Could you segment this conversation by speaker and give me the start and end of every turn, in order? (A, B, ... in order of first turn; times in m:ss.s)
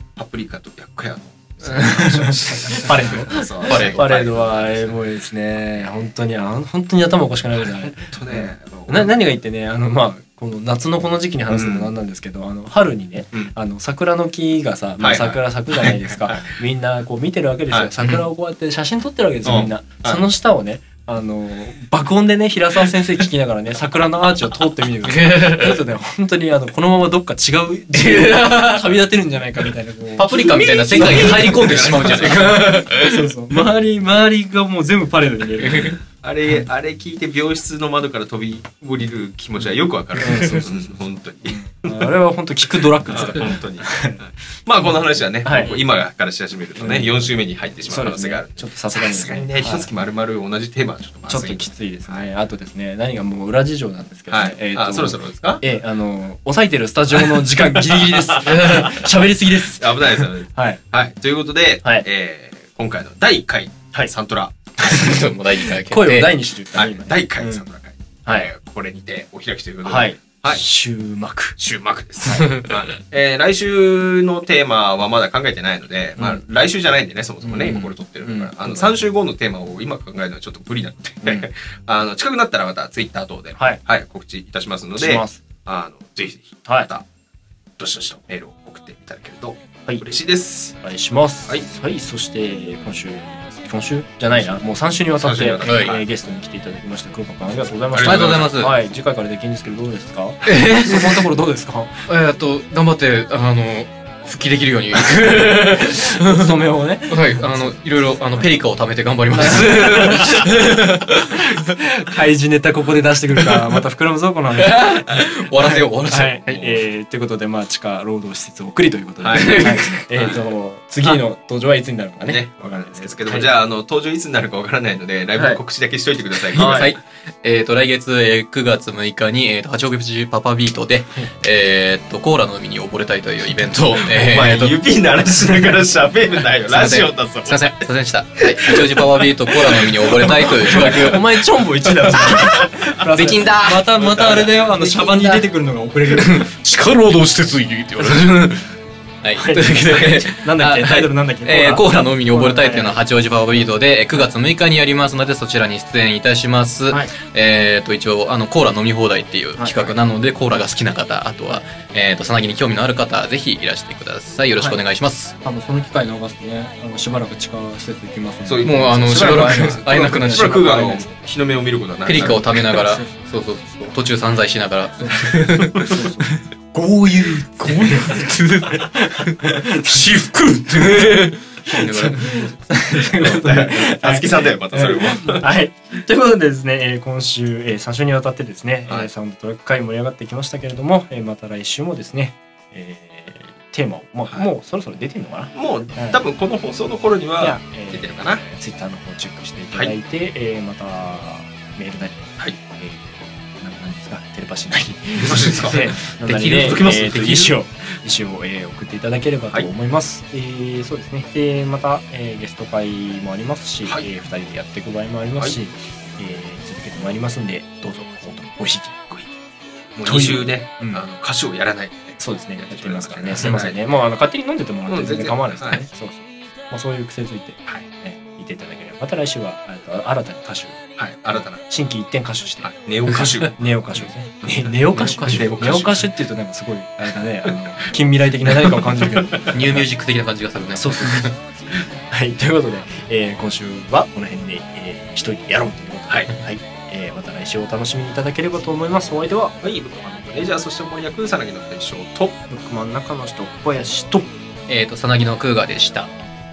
0:00.2-0:05.0 A
0:01.6-0:36.0 B
0:03.3-0:04.2 C
0:07.6-0:09.1 A
0:11.5-0:11.9 A
0:15.0-0:16.5 A
0:19.4-0:20.2 A
0:25.0-0:25.8 C
0:27.9-0:28.9 C
0:30.2-0:33.3 C
0:30.3-0:32.6 A
0:35.6-0:36.0 C
0:36.1-0:42.1 A
0:40.2-0:44.2 B
0:40.3-0:40.5 C
0:43.1-0:52.3 A
0:45.4-0:45.8 B
0:46.8-0:47.2 B
0:47.8-0:49.9 B
0:51.3-1:00.8 B
0:54.3-0:55.6 A
0:57.9-0:58.9 A
0:58.4-0:59.1 C
0:59.7-1:04.6 A
1:04.8-1:07.6 B
1:04.8-1:06.4 C
1:06.8-1:10.6 A
1:09.8-1:11.6 B
1:11.6-1:27.1 A
1:12.2-1:12.5 B
1:12.4-1:12.8 C
1:16.2-1:16.4 B
1:17.4-1:19.0 B
1:21.2-1:21.5 B
1:25.0-1:25.4 B
1:27.8-1:30.8 A
1:30.8-1:42.0 B
1:35.2-1:36.0 A
1:35.6-1:36.0 C
1:37.9-1:38.5 A
1:38.0-1:38.8 C
1:40.4-1:41.2 C
1:42.1-1:51.5 C
1:45.4-1:47.8 B
1:49.4-1:50.8 B
1:51.4-2:03.5 B
1:54.5-1:56.4 C
1:56.5-1:56.8 A
1:59.2-2:00.4 A
1:59.3-2:00.0 C
2:02.2-2:07.0 A
2:05.4-2:05.6 B
2:06.5-2:07.0 B
2:06.6-2:14.8 C
2:14.0-2:17.9 A
2:16.7-2:21.3 C
2:18.4-2:21.2 A
2:20.4-2:26.5 B
2:22.2-2:22.7 A
2:22.2-2:25.5 C
2:24.0-2:24.5 A
2:26.2-2:28.6 C
2:28.0-2:28.5 B
2:29.2-2:45.4 C
2:29.4-2:33.0 B
2:39.6-2:40.0 B
2:45.4-2:51.1 B
2:48.4-2:52.8 A
2:48.6-2:51.0 C
2:52.0-2:56.2 C
2:55.0-3:16.2 B
2:57.6-3:02.7 C
3:03.0-3:05.5 A
3:15.5-3:18.4 A
3:17.4-3:39.4 B
3:25.2-3:27.5 A
3:26.2-3:27.4 C
3:40.0-3:43.8 A
3:40.0-3:41.0 B
3:42.2-3:50.8 B
3:44.9-3:45.8 A
3:51.0-3:51.6 A
3:51.7-3:59.8 B
3:52.6-3:53.6 A
3:54.9-3:55.8 C
3:55.2-3:56.0 A
3:59.4-4:01.4 C
4:00.7-4:01.4 B
4:01.9-4:09.6 B
4:09.6-4:12.4 A
4:12.5-4:14.3 B
4:14.7-4:16.1 C